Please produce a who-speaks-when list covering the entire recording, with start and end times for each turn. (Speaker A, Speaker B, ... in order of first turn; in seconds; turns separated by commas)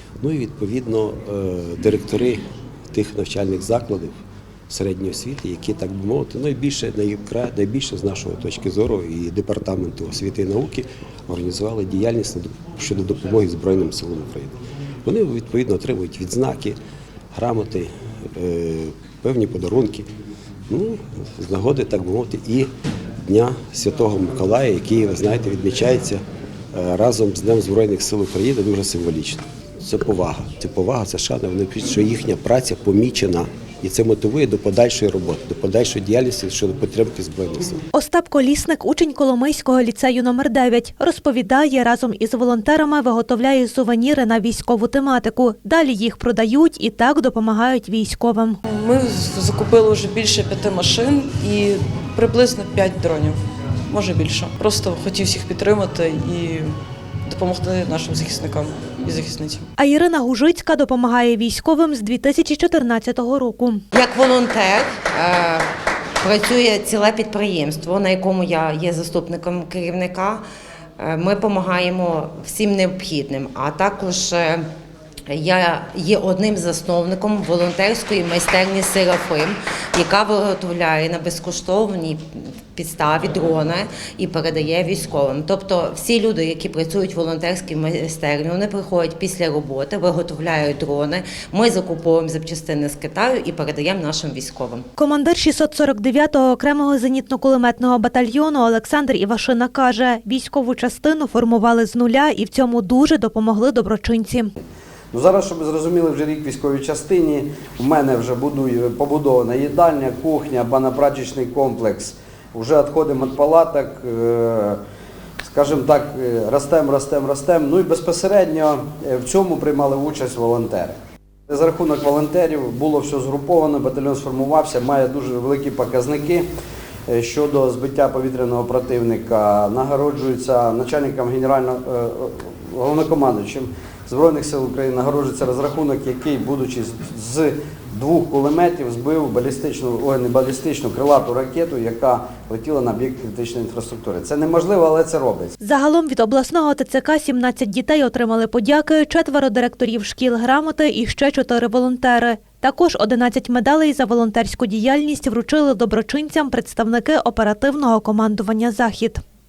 Speaker A: 0.2-4.2, Speaker A: 4.7-16.8, Speaker A: 17.3-20.1, Speaker A: 20.7-22.7, Speaker A: 23.2-37.8, Speaker B: 37.9-48.6, Speaker C: 48.6-56.8, Speaker C: 57.3-59.7, Speaker B: 59.8-63.9, Speaker D: 63.9-65.7, Speaker D: 66.2-70.4, Speaker D: 71.0-74.7, Speaker D: 75.3-94.9, Speaker B: 95.0-104.5, Speaker E: 105.1-114.8, Speaker E: 115.5-120.9, Speaker E: 121.5-126.5, Speaker E: 127.1-145.6, Speaker B: 145.6-159.2